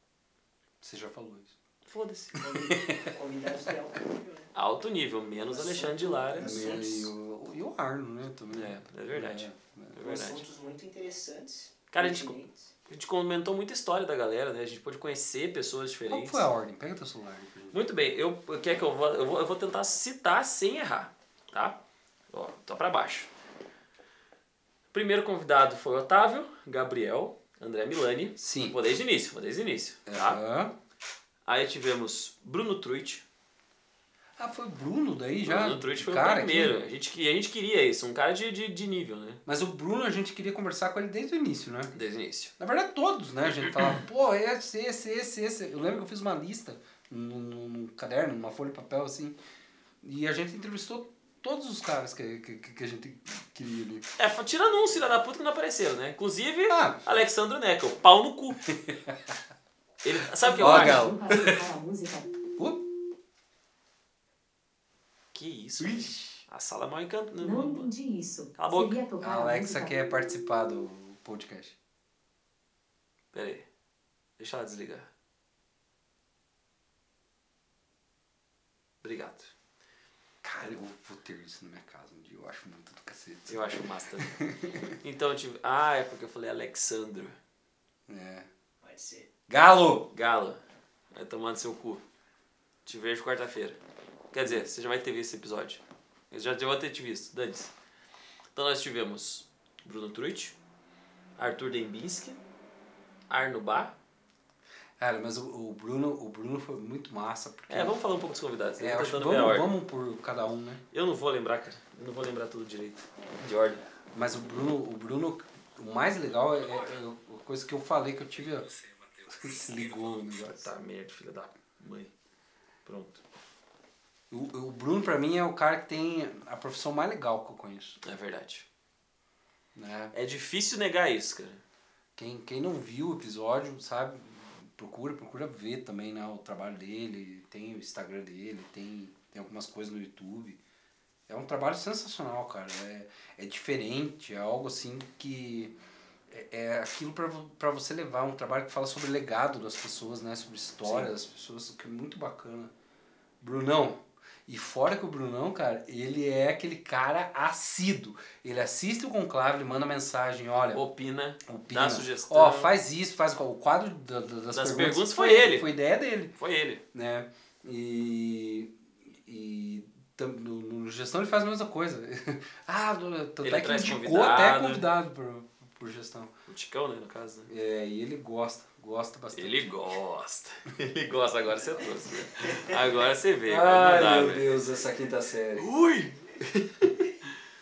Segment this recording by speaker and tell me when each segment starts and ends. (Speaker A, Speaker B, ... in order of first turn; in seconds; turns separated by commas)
Speaker A: 0.8-1.6, Speaker B: 1.9-2.4, Speaker A: 2.4-3.1, Speaker C: 2.4-4.5, Speaker B: 4.5-6.7, Speaker C: 5.3-7.1, Speaker A: 6.4-10.1, Speaker B: 8.5-10.4, Speaker C: 10.0-12.7, Speaker B: 11.9-16.5, Speaker A: 16.1-17.8, Speaker B: 17.7-21.8, Speaker B: 22.3-23.3, Speaker B: 24.9-30.4, Speaker A: 28.4-28.8, Speaker A: 30.1-30.7, Speaker B: 31.4-33.2, Speaker A: 34.4-36.8, Speaker B: 35.5-39.4, Speaker A: 39.5-42.0, Speaker B: 41.9-42.5, Speaker A: 42.6-49.4, Speaker A: 50.0-54.1, Speaker B: 54.2-58.7, Speaker A: 56.7-57.0, Speaker A: 58.7-59.4, Speaker B: 60.0-61.1, Speaker A: 60.4-61.6, Speaker D: 60.5-62.3, Speaker A: 62.6-62.9, Speaker B: 65.3-67.9, Speaker A: 65.8-66.4, Speaker D: 67.4-69.9, Speaker B: 68.6-69.0, Speaker A: 69.2-71.8, Speaker B: 73.3-73.7, Speaker B: 74.4-75.1, Speaker B: 79.0-79.5, Speaker A: 80.4-85.0, Speaker B: 83.5-84.3, Speaker B: 85.0-87.4, Speaker A: 88.1-88.5, Speaker C: 88.8-89.3, Speaker A: 89.5-90.1, Speaker B: 90.1-90.6, Speaker B: 91.1-92.0, Speaker B: 92.8-93.8, Speaker B: 94.3-97.7, Speaker B: 98.5-100.6, Speaker B: 101.4-102.4, Speaker B: 103.3-104.0, Speaker A: 105.0-108.0, Speaker B: 107.7-109.7, Speaker A: 108.8-110.8, Speaker B: 110.9-113.8, Speaker A: 114.1-118.7, Speaker A: 119.3-120.7, Speaker B: 120.4-122.1, Speaker B: 122.8-123.2, Speaker A: 124.3-128.0, Speaker B: 128.0-128.7, Speaker A: 129.8-130.1, Speaker B: 130.1-131.6, Speaker A: 132.2-140.6, Speaker A: 141.3-145.8, Speaker A: 146.3-152.7, Speaker B: 150.8-151.1, Speaker A: 153.4-160.9, Speaker B: 160.7-162.7, Speaker A: 161.4-166.3, Speaker B: 164.5-165.7, Speaker B: 166.4-166.8, Speaker A: 166.9-176.3, Speaker B: 173.4-174.8, Speaker B: 176.5-177.5, Speaker A: 177.5-179.7, Speaker B: 179.3-184.5, Speaker A: 183.5-185.7, Speaker B: 185.6-187.1